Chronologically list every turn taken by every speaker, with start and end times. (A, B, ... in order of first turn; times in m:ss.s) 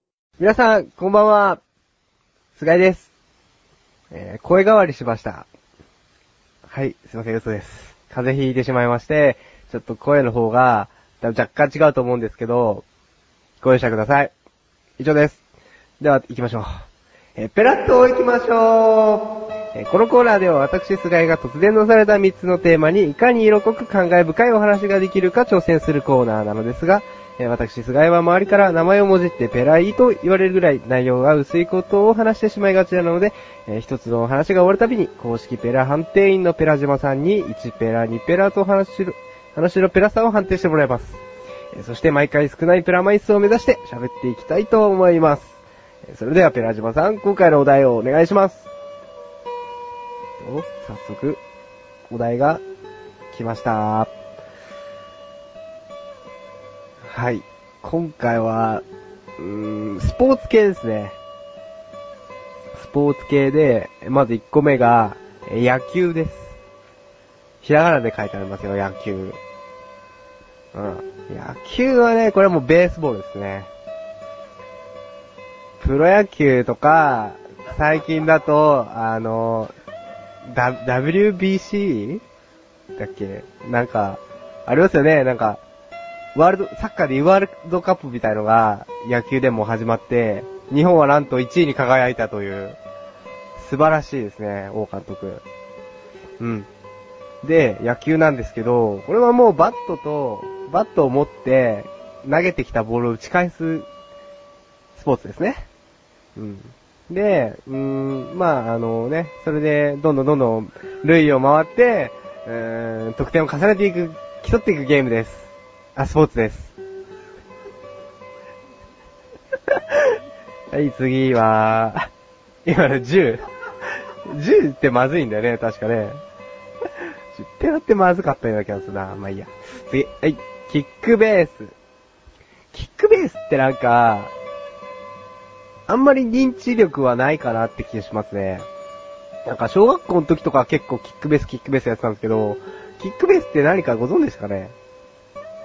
0:00.4-0:01.6 A
0:02.6-0:03.1 A
0:04.1-0:05.5 A
0:06.7-0:12.8 A
0:13.6-0:14.3 A
0:15.0-0:15.4 A
0:16.0-0:16.7 A
0:17.4-0:41.2 A
0:41.7-0:48.7 A
0:50.4-0:51.4 A
0:52.1-0:52.6 A
0:53.3-0:54.1 A
0:57.1-0:58.8 A
0:59.4-1:01.2 A
1:02.7-1:06.5 A
1:07.6-1:09.4 A
1:10.7-1:13.7 A
1:15.8-1:19.7 A
1:20.4-1:22.2 A
1:23.0-1:25.6 A
1:26.3-1:32.8 A
1:33.6-1:35.4 A
1:36.4-1:36.7 A
1:37.4-1:43.9 A
1:44.9-1:45.6 A
1:46.4-1:56.7 A
2:00.7-2:02.1 A
2:02.6-2:03.4 A
2:04.2-2:06.2 A
2:07.3-2:11.7 A
2:12.7-2:14.3 A
2:15.9-2:18.7 A
2:19.4-2:24.7 A